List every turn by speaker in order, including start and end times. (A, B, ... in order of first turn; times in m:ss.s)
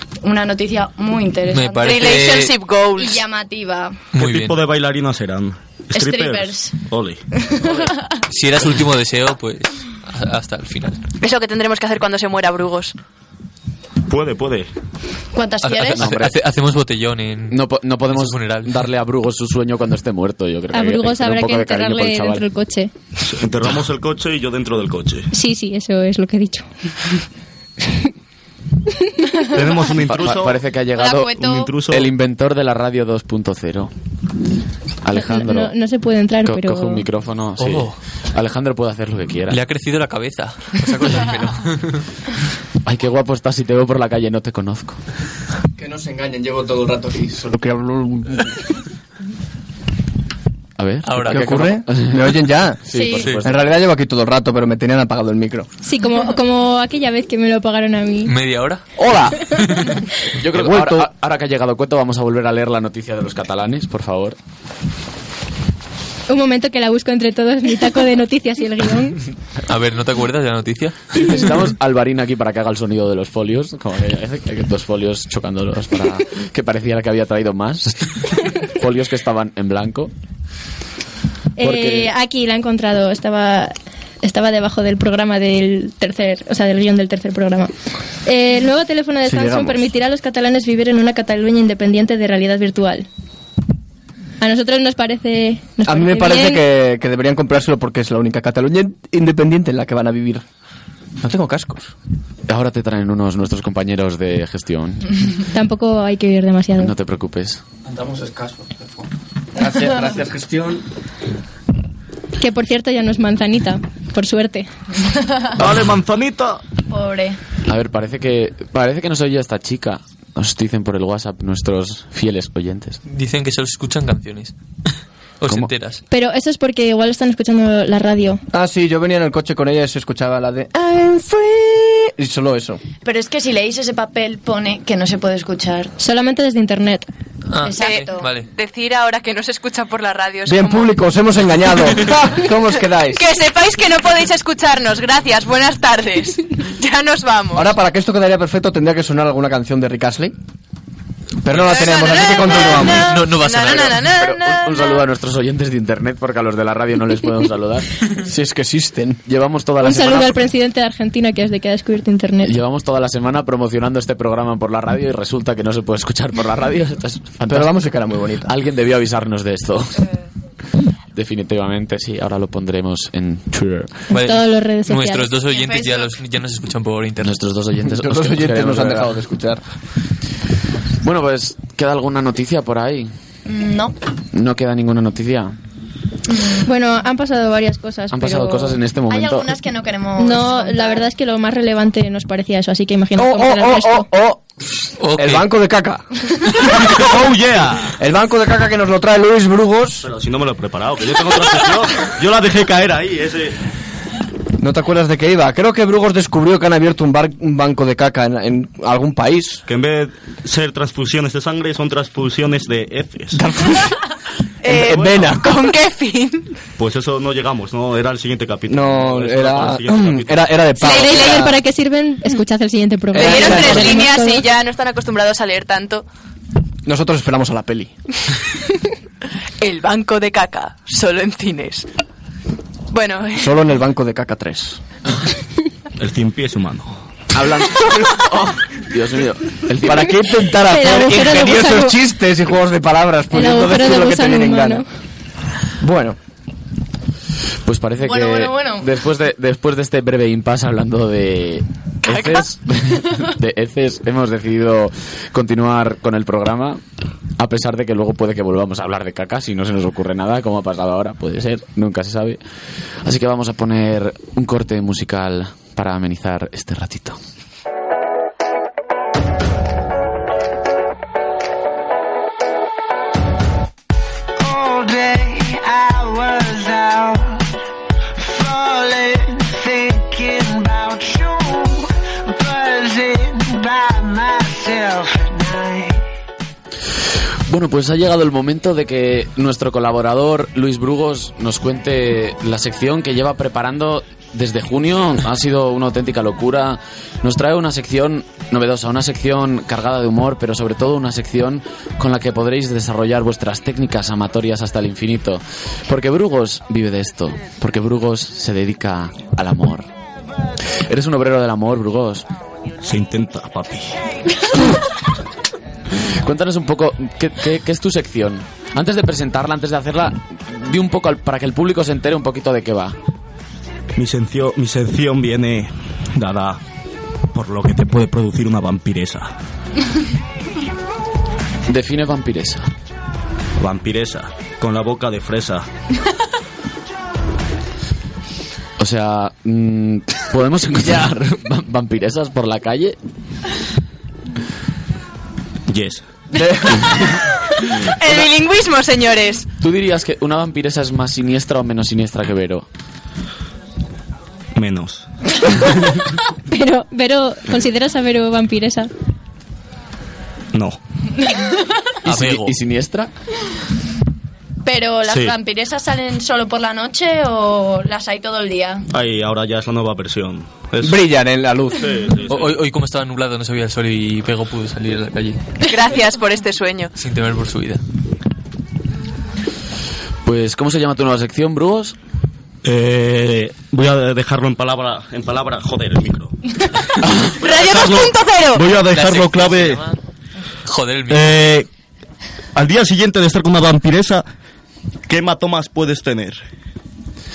0:00.2-0:02.4 A
0:01.5-0:02.6 B
0:01.8-0:03.2 C
0:03.0-0:04.1 A
0:04.2-0:04.6 B
0:04.2-0:07.2 D
0:05.9-0:06.8 A
0:07.4-0:08.2 A
0:08.3-0:11.0 B
0:11.2-0:12.9 C
0:14.1-0:14.7 D
0:15.3-0:16.1 A
0:15.6-0:18.8 B
0:15.9-0:16.4 E
0:17.5-0:22.4 E
0:20.7-0:22.9 F
0:23.2-0:25.3 D
0:25.3-0:26.7 F
0:29.5-0:30.6 D
0:30.1-0:33.9 E
0:31.0-0:31.7 A
0:31.4-0:32.1 D
0:35.0-0:35.8 E
0:35.1-0:37.1 F
0:36.4-0:39.6 E
0:37.6-0:38.0 B
0:39.5-0:42.0 B
0:42.8-0:45.0 E
0:45.8-0:48.6 G
0:50.8-0:53.7 E
0:51.0-0:51.7 B
0:51.3-0:55.7 G
0:52.9-0:53.4 A
0:53.2-0:53.4 B
0:55.8-0:58.3 F
0:58.3-0:58.8 B
0:59.0-0:59.4 G
0:59.6-0:59.9 B
1:00.4-1:04.4 E
1:00.5-1:01.0 G
1:06.3-1:09.2 F
1:09.7-1:11.3 B
1:11.1-1:20.1 E
1:21.6-1:27.7 F
1:21.6-1:22.1 E
1:28.2-1:33.1 F
1:29.2-1:29.8 G
1:34.4-1:36.6 F
1:35.9-1:40.4 G
1:41.2-1:41.9 G
1:42.5-1:45.1 E
1:45.5-1:46.9 F
1:46.8-1:47.6 E
1:47.9-1:48.7 H
1:49.6-1:50.8 H
1:52.4-1:54.7 F
1:55.6-1:56.6 D
1:56.9-1:57.4 A
1:57.6-2:03.0 E
2:03.1-2:04.5 B
2:05.4-2:06.0 B
2:06.1-2:08.4 F
2:08.5-2:12.8 G
2:13.0-2:15.9 A
2:16.0-2:17.1 F
2:17.5-2:18.5 B
2:17.6-2:18.3 A
2:17.8-2:21.0 C
2:20.5-2:23.2 G
2:23.1-2:27.7 C
2:27.5-2:30.3 G
2:31.4-2:33.1 G
2:31.5-2:35.0 C
2:32.4-2:34.1 B
2:34.1-2:38.0 E
2:38.2-2:39.2 G
2:39.2-2:40.4 E
2:39.8-2:42.6 F
2:42.4-2:47.8 E
2:47.5-2:48.5 G
2:48.4-2:50.1 E
2:51.1-2:54.0 E
2:54.1-2:55.3 F
2:54.1-2:57.4 B
2:55.5-2:56.1 A
2:57.2-2:59.2 E
2:57.9-2:59.6 G
3:01.0-3:03.1 E
3:03.5-3:04.0 A
3:04.3-3:05.6 E
3:06.6-3:08.8 F
3:08.1-3:09.6 E
3:09.1-3:11.1 A
3:10.2-3:14.1 F
3:13.2-3:14.4 G
3:15.0-3:15.5 B
3:15.2-3:17.1 G
3:16.6-3:18.0 D
3:18.0-3:20.1 G
3:20.0-3:23.6 D
3:24.6-3:29.6 G
3:29.7-3:33.4 D
3:33.3-3:34.0 G
3:34.6-3:36.5 C
3:34.7-3:35.6 G
3:34.7-3:35.3 D
3:36.8-3:40.6 D
3:38.7-3:41.6 G
3:40.8-3:44.4 F
3:40.8-3:41.5 C
3:43.1-3:44.0 G
3:43.2-3:46.0 C
3:46.9-3:47.9 G
3:49.6-3:51.9 C
3:52.9-3:53.5 C
3:53.4-3:54.8 G
3:56.0-3:57.0 D
3:57.3-4:00.2 E
3:59.8-4:04.8 G
4:00.7-4:02.0 F
4:03.3-4:04.8 F
4:05.8-4:06.2 G
4:07.6-4:16.8 E
4:08.0-4:08.9 A
4:12.1-4:12.4 C
4:17.4-4:22.4 E
4:23.0-4:27.2 E
4:34.4-4:37.5 I
4:38.2-4:46.0 I
4:47.5-5:09.9 E
5:10.9-5:12.3 E
5:12.8-5:14.0 D
5:16.1-5:23.0 E
5:24.0-5:26.6 D
5:27.3-5:29.3 D
5:31.7-5:32.7 E
5:33.6-5:35.7 D
5:38.8-5:43.0 E
5:45.7-5:46.0 D
5:46.4-5:46.8 G
5:47.6-5:49.5 C
5:49.6-5:52.7 E
5:54.6-5:55.0 D
5:56.5-5:58.9 F
6:00.5-6:00.8 D
6:01.3-6:01.6 A
6:02.0-6:03.1 E
6:02.1-6:02.6 B
6:04.6-6:08.8 A
6:05.1-6:05.4 D
6:08.9-6:11.0 D
6:10.8-6:12.0 G
6:11.8-6:12.6 D
6:12.3-6:15.4 B
6:15.6-6:16.9 C
6:17.0-6:17.8 B
6:20.2-6:22.0 E
6:22.6-6:29.8 D
6:27.4-6:28.6 C
6:28.8-6:30.0 B
6:30.7-6:31.5 B
6:31.1-6:31.7 D
6:32.6-6:34.2 D
6:35.1-6:36.4 D